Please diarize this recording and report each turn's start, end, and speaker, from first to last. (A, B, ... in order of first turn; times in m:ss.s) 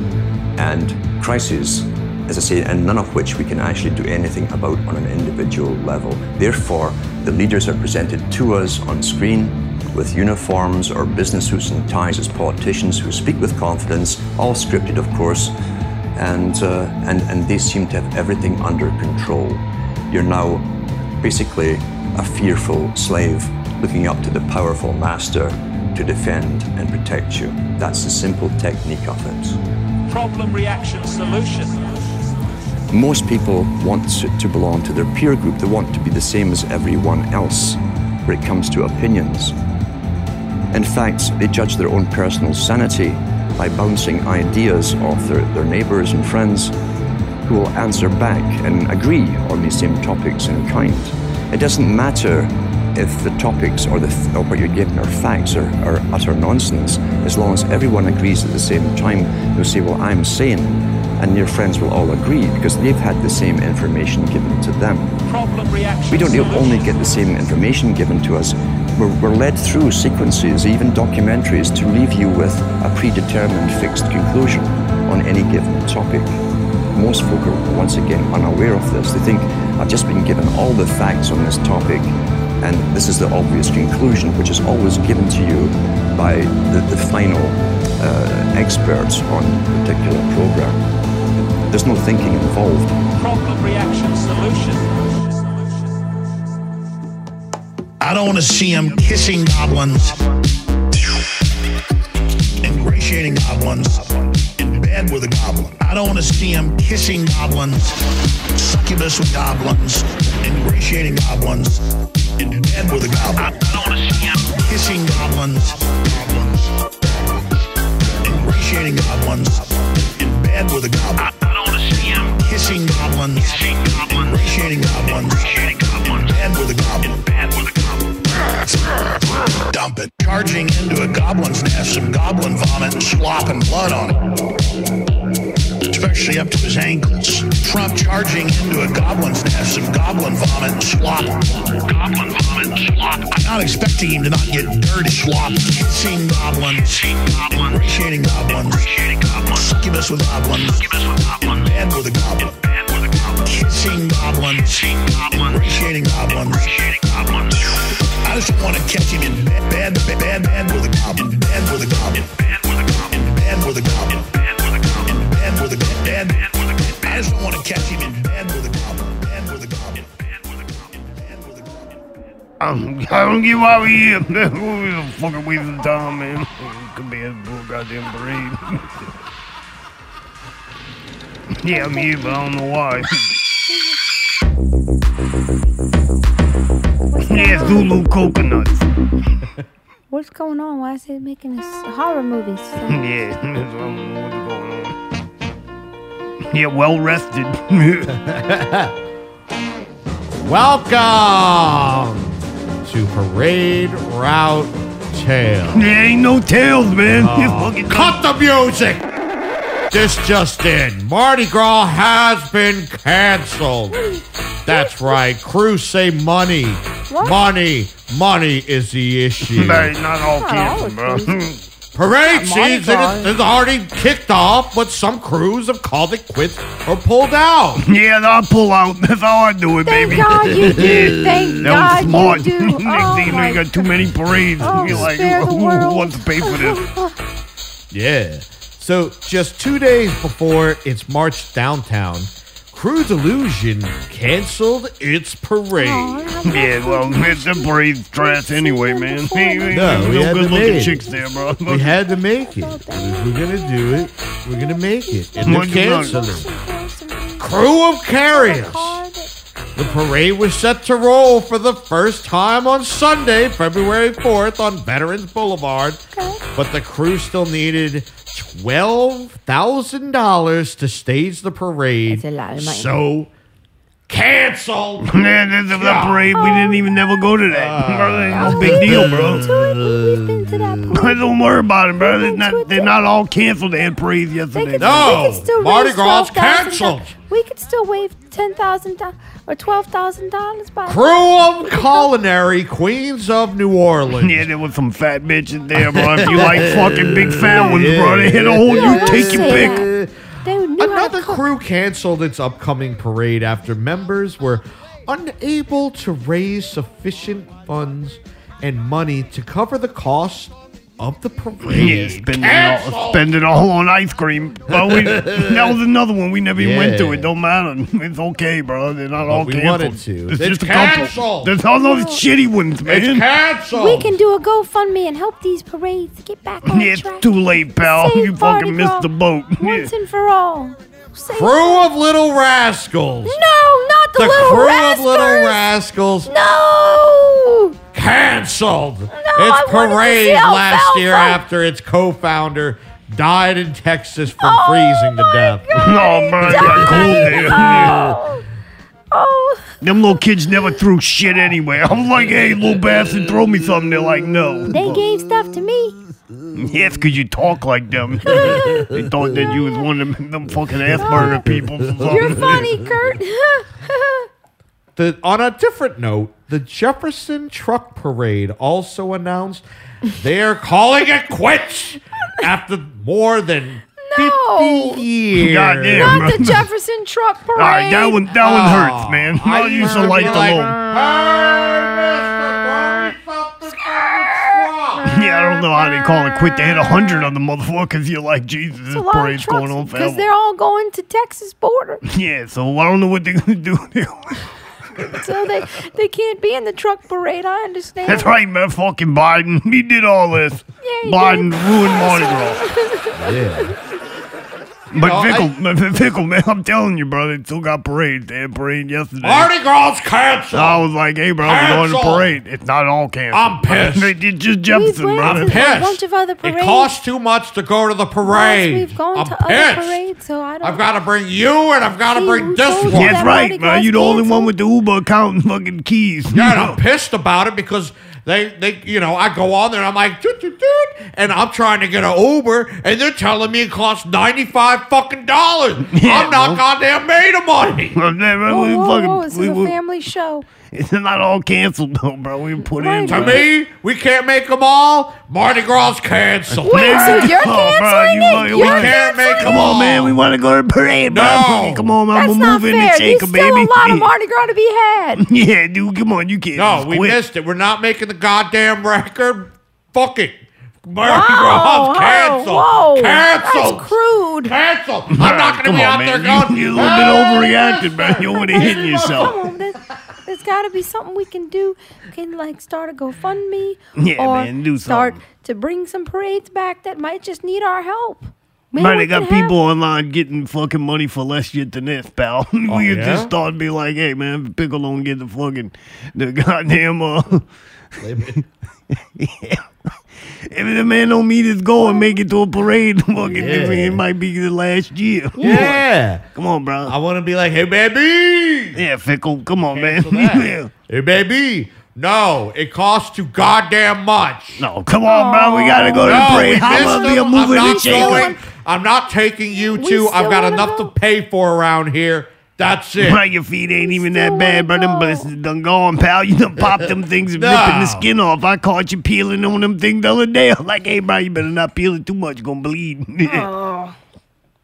0:00.6-0:15.6 A
0:16.2-0:29.6 A
0:30.1-0:31.8 B
0:32.9-0:39.6 A
0:40.7-0:46.8 A
0:47.4-1:05.2 A
1:05.3-1:07.2 B
1:06.1-1:16.4 A
1:16.9-1:30.8 A
1:31.7-1:33.0 A
1:33.2-1:34.9 B
1:38.0-1:40.2 C
1:42.6-1:56.7 C
1:58.2-2:14.3 C
2:15.9-2:52.0 C
2:52.6-2:58.8 D
3:01.6-3:03.2 D
3:01.6-3:02.4 E
3:03.7-3:04.0 E
3:07.1-3:08.0 E
3:07.3-3:08.8 D
3:10.1-3:13.1 E
3:12.9-3:15.0 D
3:16.5-3:18.1 D
3:18.1-3:19.0 F
3:20.4-3:25.9 F
3:25.7-3:28.2 D
3:27.1-3:29.0 F
3:29.9-3:34.0 F
3:33.9-3:35.2 E
3:34.7-3:40.0 F
3:37.1-3:37.4 E
3:39.5-3:41.6 D
3:40.2-3:41.5 E
3:42.0-3:47.9 F
3:42.3-3:43.3 E
3:47.8-3:51.1 D
3:49.8-3:54.0 E
3:50.4-3:52.3 F
3:51.6-3:56.8 D
3:54.6-3:57.2 E
3:54.6-3:55.1 F
3:57.9-4:06.3 F
4:05.7-4:10.1 E
4:06.5-4:11.9 D
4:09.7-4:11.1 F
4:10.8-4:17.6 E
4:11.7-4:16.5 F
4:15.4-4:16.3 D
4:17.4-4:19.0 F
4:18.1-4:20.2 E
4:19.8-4:26.0 F
4:26.1-4:26.4 E
4:26.6-4:33.3 F
4:32.1-4:32.9 E
4:34.1-4:35.2 F
4:35.0-4:39.4 D
4:35.7-4:36.6 F
4:36.3-4:36.9 E
4:37.5-4:40.9 F
4:38.3-4:41.4 E
4:41.0-4:45.2 D
4:41.9-4:43.0 E
4:44.5-4:52.1 E
4:44.8-4:47.2 F
4:50.9-4:54.5 F
4:54.2-4:59.8 D
4:55.8-5:00.1 F
4:58.7-4:59.9 E
5:00.4-5:01.4 E
5:00.8-5:13.4 F
5:11.7-5:23.2 D
5:14.7-5:15.8 F
5:16.6-5:17.3 F
5:19.2-5:21.6 F
5:21.6-5:22.2 E
5:22.8-5:24.2 F
5:23.7-5:31.9 E
5:26.7-5:29.9 D
5:31.3-5:33.4 F
5:33.3-5:35.7 E
5:34.2-5:36.3 F
5:36.3-5:37.8 E
5:37.9-5:45.7 F
5:39.1-5:41.4 E
5:44.4-5:48.4 E
5:45.8-5:48.0 D
5:46.4-5:48.2 F
5:49.1-5:50.2 E
5:49.8-5:55.0 D
5:54.7-5:56.0 E
5:56.6-6:02.6 D
5:58.3-5:58.9 E
5:58.3-5:59.3 F
6:00.9-6:02.8 F
6:01.0-6:04.3 E
6:05.0-6:16.3 F
6:14.0-6:15.1 E
6:15.4-6:16.7 D
6:15.9-6:18.3 E
6:17.6-6:20.8 D
6:18.3-6:25.1 F
6:24.3-6:27.3 E
6:25.1-6:30.3 D
6:28.9-6:32.0 E
6:32.1-6:34.4 D
6:35.1-6:38.4 E
6:38.1-6:42.6 D
6:40.8-6:43.7 E
6:43.2-6:43.8 F
6:44.9-6:49.5 D
6:44.9-6:45.5 F
6:49.2-6:50.8 F
6:50.5-6:55.6 D
6:51.4-6:52.3 F
6:53.3-6:54.2 F
6:54.7-6:57.0 E
6:55.2-7:00.0 F
6:58.2-7:00.8 E
7:00.6-7:03.3 F
7:02.1-7:04.5 E
7:02.9-7:06.8 D
7:06.3-7:18.0 F
7:15.9-7:16.6 D
7:18.0-7:19.8 D
7:18.5-7:20.5 E
7:20.7-7:23.5 D
7:22.8-7:23.4 E
7:23.1-7:27.4 F
7:26.5-7:34.1 D
7:26.7-7:29.9 E
7:28.4-7:30.2 F
7:31.1-7:32.0 F
7:32.1-7:35.2 E
7:35.2-7:37.2 D
7:36.5-7:49.4 F
7:41.0-7:44.6 E
7:45.1-7:49.4 D
7:46.9-7:59.6 E
7:54.0-7:55.2 D
7:58.8-8:07.4 D
8:02.7-8:03.3 F
8:08.0-8:08.4 F
8:09.2-8:09.6 D
8:10.5-8:15.8 D
8:11.8-8:12.1 E
8:13.2-8:14.0 F
8:15.4-8:15.8 E
8:15.4-8:16.2 F
8:16.4-8:17.0 D
8:16.9-8:18.8 F
8:18.8-8:20.7 D
8:19.7-8:24.7 F
8:24.6-8:28.3 D
8:25.1-8:28.4 E
8:26.0-8:33.2 F
8:29.6-8:30.9 E
8:33.0-8:43.5 D
8:33.8-8:35.3 E
8:36.7-8:38.1 F
8:43.4-8:43.9 E